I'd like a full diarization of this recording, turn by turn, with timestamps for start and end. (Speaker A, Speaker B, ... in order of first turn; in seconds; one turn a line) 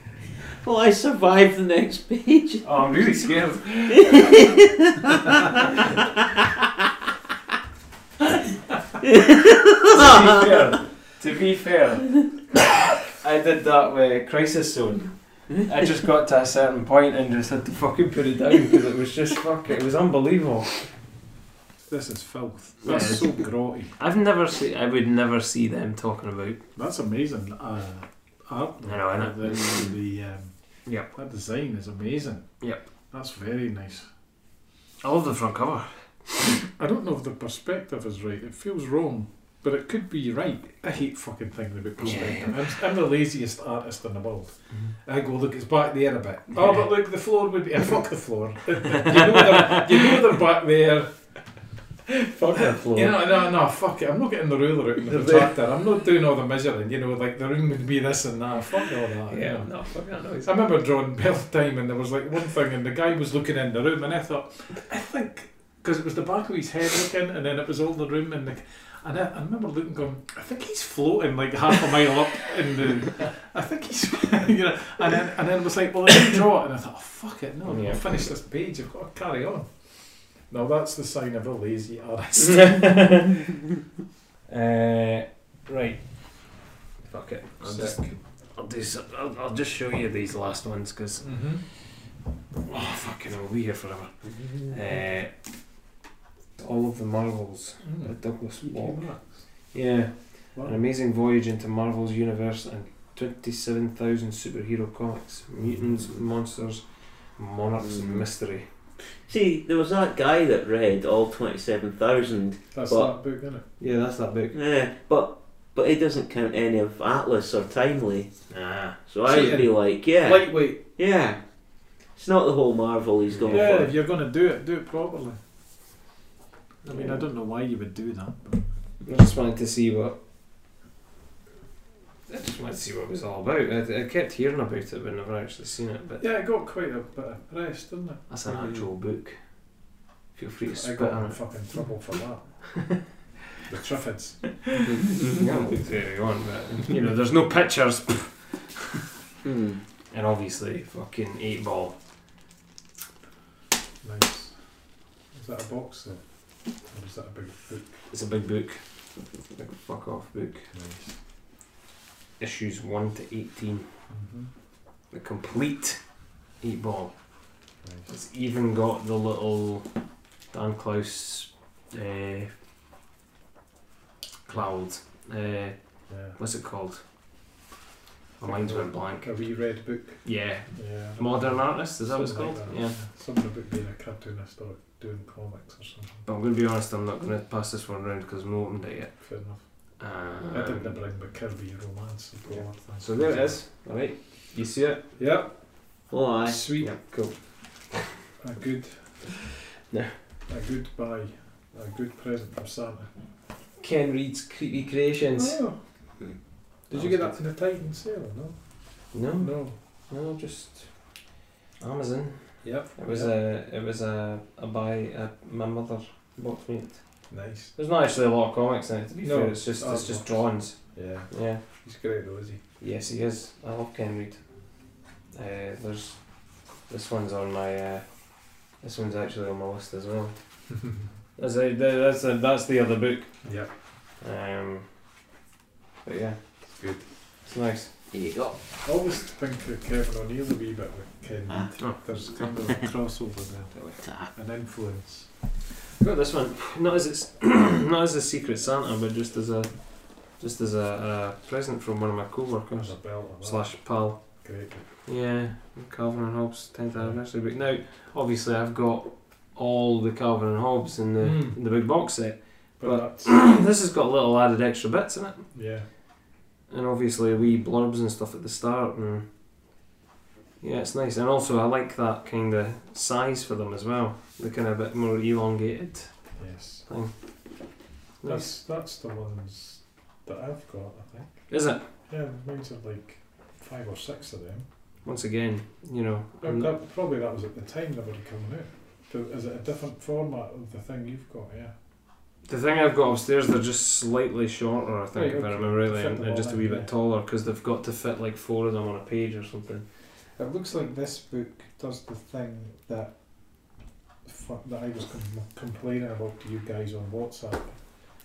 Speaker A: 0.6-2.6
Speaker B: 2.6-4.5
Speaker A: 4.0-5.8
Speaker A: 9.0-10.4
Speaker B: 9.9-20.9
Speaker C: 21.9-23.9
Speaker B: 22.8-26.6
Speaker C: 26.7-30.5
Speaker B: 28.9-29.9
Speaker C: 31.1-34.1
Speaker B: 35.0-36.6
Speaker C: 36.6-51.4
Speaker B: 42.0-42.6
Speaker B: 49.0-49.9
Speaker B: 52.1-53.2
Speaker C: 52.8-59.7
Speaker B: 55.1-55.5
Speaker B: 59.3-60.5
Speaker C: 60.4-83.2
Speaker B: 77.7-78.3
Speaker B: 82.4-83.5
Speaker B: 84.5-86.4
Speaker B: 87.0-91.8
Speaker C: 87.6-88.1
Speaker C: 91.2-91.6
Speaker B: 92.6-95.3
Speaker B: 96.6-108.7
Speaker C: 97.8-99.5
Speaker C: 105.6-106.1
Speaker A: 107.8-108.2
Speaker A: 109.3-113.1
Speaker C: 112.7-113.6
Speaker B: 113.8-114.6
Speaker A: 114.5-118.3
Speaker B: 118.5-119.0
Speaker A: 119.0-121.5
Speaker C: 119.2-120.8
Speaker A: 122.1-123.9
Speaker B: 123.3-123.8
Speaker C: 123.5-125.4
Speaker B: 126.8-127.2
Speaker C: 126.9-128.6
Speaker B: 129.1-130.2
Speaker B: 132.3-136.3
Speaker C: 136.2-138.2
Speaker B: 138.3-139.4
Speaker B: 140.3-141.4
Speaker C: 140.7-142.7
Speaker C: 143.7-144.6
Speaker A: 144.9-145.4
Speaker B: 145.1-149.1
Speaker A: 149.4-149.8
Speaker B: 150.1-152.0
Speaker C: 154.0-154.6
Speaker C: 155.3-156.2
Speaker C: 156.9-157.9
Speaker B: 158.1-158.8
Speaker B: 159.5-160.7
Speaker C: 160.7-161.2
Speaker B: 162.4-163.9
Speaker C: 164.1-164.5
Speaker B: 165.1-166.0
Speaker B: 166.6-167.1
Speaker C: 167.8-168.1
Speaker B: 168.1-169.9
Speaker B: 170.5-172.5
Speaker B: 174.4-177.0
Speaker C: 176.1-176.4
Speaker B: 178.4-179.3
Speaker C: 178.4-186.2
Speaker B: 180.2-183.0
Speaker B: 186.3-189.2
Speaker C: 189.2-189.6
Speaker B: 190.0-191.0
Speaker C: 190.5-193.6
Speaker B: 192.5-195.0
Speaker C: 195.2-195.5
Speaker A: 196.1-196.6
Speaker C: 196.4-196.9
Speaker B: 196.8-198.1
Speaker C: 198.4-199.3
Speaker B: 199.9-200.1
Speaker C: 200.4-203.1
Speaker B: 203.8-205.6
Speaker C: 205.4-205.8
Speaker C: 206.9-208.6
Speaker B: 206.9-207.4
Speaker B: 209.1-211.2
Speaker C: 209.4-209.7
Speaker B: 211.8-221.6
Speaker C: 212.6-213.3
Speaker C: 217.3-217.7
Speaker C: 219.2-222.6
Speaker B: 222.8-224.4
Speaker B: 225.3-226.3
Speaker B: 226.9-230.4
Speaker B: 231.4-233.4
Speaker C: 233.4-233.7
Speaker B: 234.2-234.9
Speaker B: 236.0-236.4
Speaker C: 236.7-237.1
Speaker B: 237.4-237.9
Speaker A: 238.1-238.6
Speaker C: 238.8-245.3
Speaker A: 244.0-244.3
Speaker B: 246.0-254.4
Speaker C: 252.7-254.9
Speaker B: 255.0-265.5
Speaker C: 261.2-261.6
Speaker C: 262.8-263.4
Speaker C: 265.5-265.9
Speaker B: 266.7-269.3
Speaker B: 270.6-276.3
Speaker C: 276.4-276.9
Speaker B: 276.9-277.1
Speaker B: 278.2-278.5
Speaker C: 278.2-281.5
Speaker B: 281.5-281.9
Speaker C: 282.1-284.7
Speaker B: 285.0-286.7
Speaker C: 286.4-291.7
Speaker B: 292.4-299.9
Speaker C: 295.1-296.9
Speaker C: 300.4-303.1
Speaker C: 304.2-307.8